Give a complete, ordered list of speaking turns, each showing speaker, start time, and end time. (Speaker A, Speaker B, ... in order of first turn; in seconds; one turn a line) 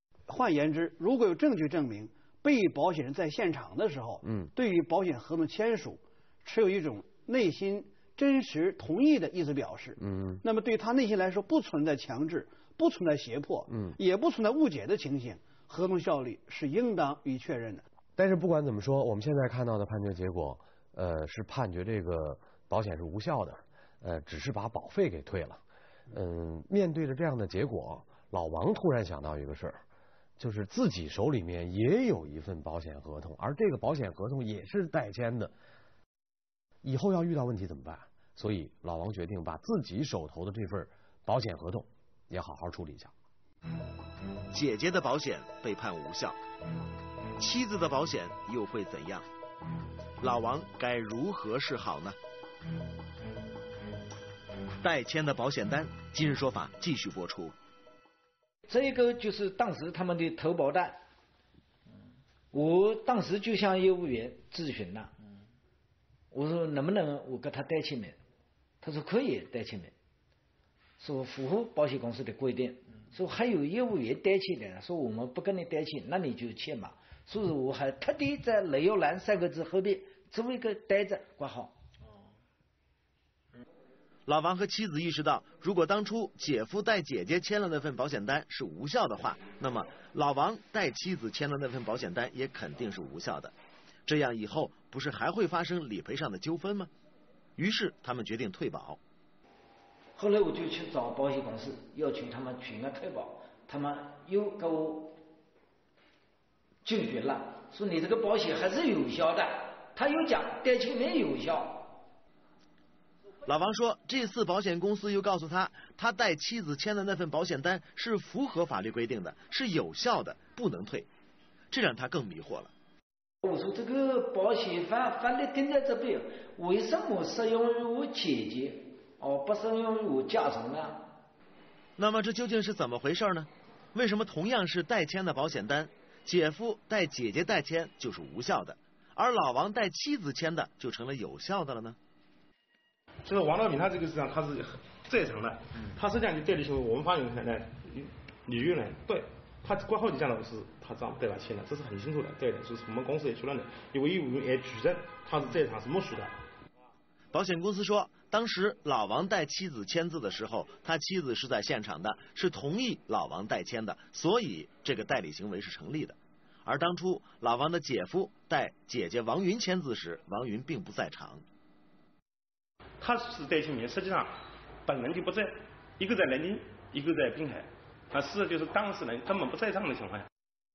Speaker A: 0.3-17.8
Speaker B: 4.2-4.5
Speaker B: 10.0-10.4
Speaker B: 13.7-14.0
Speaker B: 18.2-29.8
Speaker B: 30.4-35.5
Speaker B: 36.8-43.1
Speaker C: 44.5-46.4
Speaker C: 47.4-49.3
Speaker C: 50.2-52.2
Speaker C: 54.8-57.5
Speaker D: 58.7-61.0
Speaker D: 62.5-65.1
Speaker D: 66.3-68.2
Speaker D: 68.8-69.9
Speaker D: 71.0-81.8
Speaker C: 84.3-93.5
Speaker C: 94.1-96.9
Speaker C: 97.6-99.0
Speaker D: 100.2-105.2
Speaker D: 106.8-112.0
Speaker C: 113.5-121.1
Speaker C: 121.7-122.7
Speaker D: 123.4-131.1
Speaker C: 132.0-142.0
Speaker E: 143.2-156.3
Speaker C: 157.3-171.4
Speaker E: 173.0-180.3